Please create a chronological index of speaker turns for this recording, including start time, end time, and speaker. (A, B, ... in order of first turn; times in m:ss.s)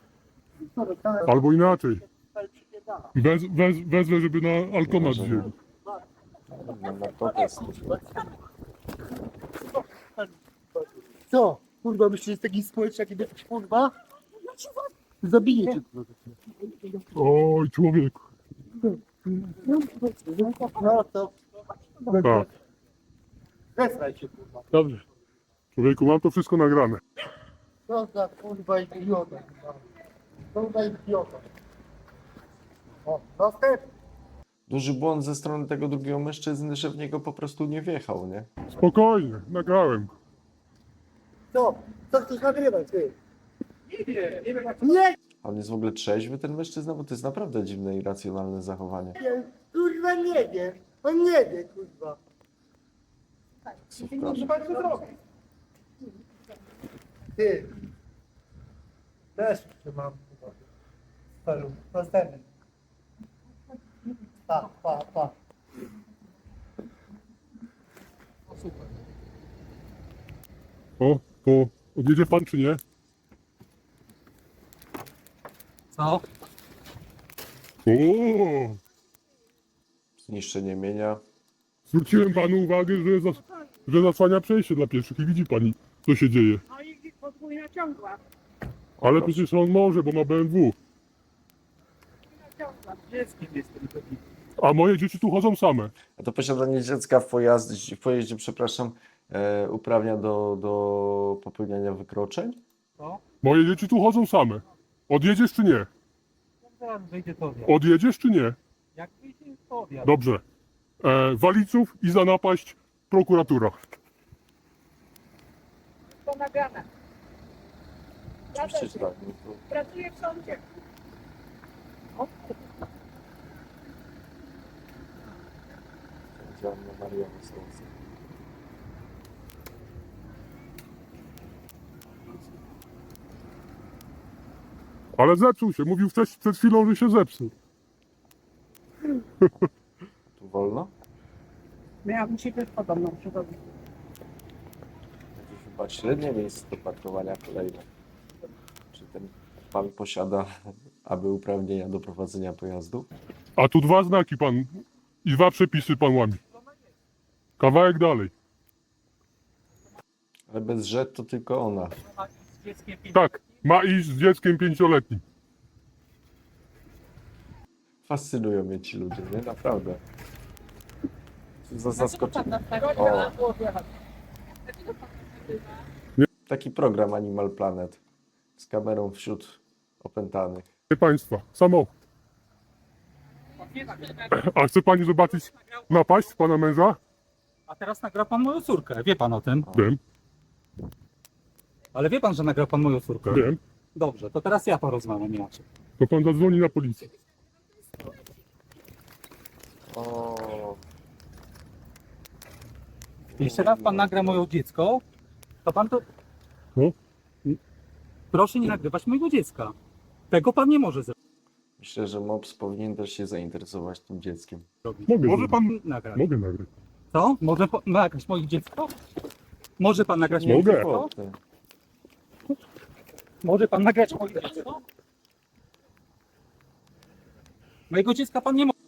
0:00.6-0:03.1 A
0:01.2-0:02.0 B
0:03.2-0:05.5 B
0:04.9-0:05.5 C
0:06.6-0:07.8 C
0:10.0-0:13.9 A
0:15.2-0:17.0 A
0:17.2-0:18.3 B
0:19.4-0:21.3 A
0:22.1-0:22.4 A
0:23.8-0:24.7 A
0:24.7-0:25.0 B
0:25.7-0:27.0 B
0:27.9-0:29.8 A
0:30.5-0:31.4 A
0:33.1-0:33.9 A
0:34.7-0:38.5 C
0:38.8-0:40.1 B
0:41.5-0:43.2 A
0:44.1-0:45.1 A
0:45.4-0:49.2 C
0:49.2-0:52.2 A
0:53.9-0:54.6 C
0:54.2-0:55.0 A
0:57.4-0:57.7 A
0:59.4-1:00.5 A
1:01.4-1:02.4 A
1:04.5-1:05.3 A
1:11.0-1:12.8 B
1:15.9-1:16.2 D
1:17.9-1:18.8 B
1:20.2-1:21.2 C
1:21.9-1:26.6 B
1:26.9-1:28.2 E
1:29.0-1:30.8 B
1:29.0-1:29.4 C
1:32.6-1:34.2 D
1:34.6-1:35.9 B
1:36.1-1:42.6 C
1:43.0-1:43.2 D
1:43.4-1:45.9 B
1:46.7-1:47.7 D
1:47.7-1:48.6 B
1:49.0-1:50.1 D
1:50.0-1:50.4 B
1:51.0-1:53.8 B
1:56.2-1:56.8 E
1:58.5-2:00.0 C
1:59.8-2:00.6 E
2:06.4-2:08.0 C
2:15.2-2:17.5 B
2:20.4-2:20.9 C
2:22.0-2:23.6 E
2:25.4-2:27.8 C
2:28.9-2:30.5 C
2:31.0-2:33.1 C
2:33.6-2:36.4 B
2:37.6-2:38.3 B
2:40.5-2:42.0 C
2:42.5-2:43.4 D
2:43.1-2:45.2 B
2:48.1-2:50.0 C
2:51.7-2:53.4 C
2:52.4-2:53.9 E
2:54.7-2:55.8 E
2:56.5-2:58.0 C
2:58.6-3:00.7 C
3:00.9-3:01.9 B
3:03.7-3:04.2 D
3:04.2-3:07.0 B
3:07.7-3:09.7 D
3:09.7-3:10.0 B
3:11.9-3:15.6 D
3:13.3-3:13.6 B
3:16.0-3:17.1 B
3:19.9-3:20.8 C
3:23.3-3:24.5 C
3:23.4-3:25.0 D
3:25.6-3:26.0 D
3:28.3-3:29.7 D
3:30.3-3:31.1 D
3:31.8-3:34.6 C
3:34.8-3:36.2 D
3:35.1-3:36.7 B
3:37.1-3:39.0 D
3:39.8-3:41.1 D
3:40.2-3:41.4 C
3:40.4-3:40.9 B
3:43.4-3:44.8 D
3:47.9-3:48.7 D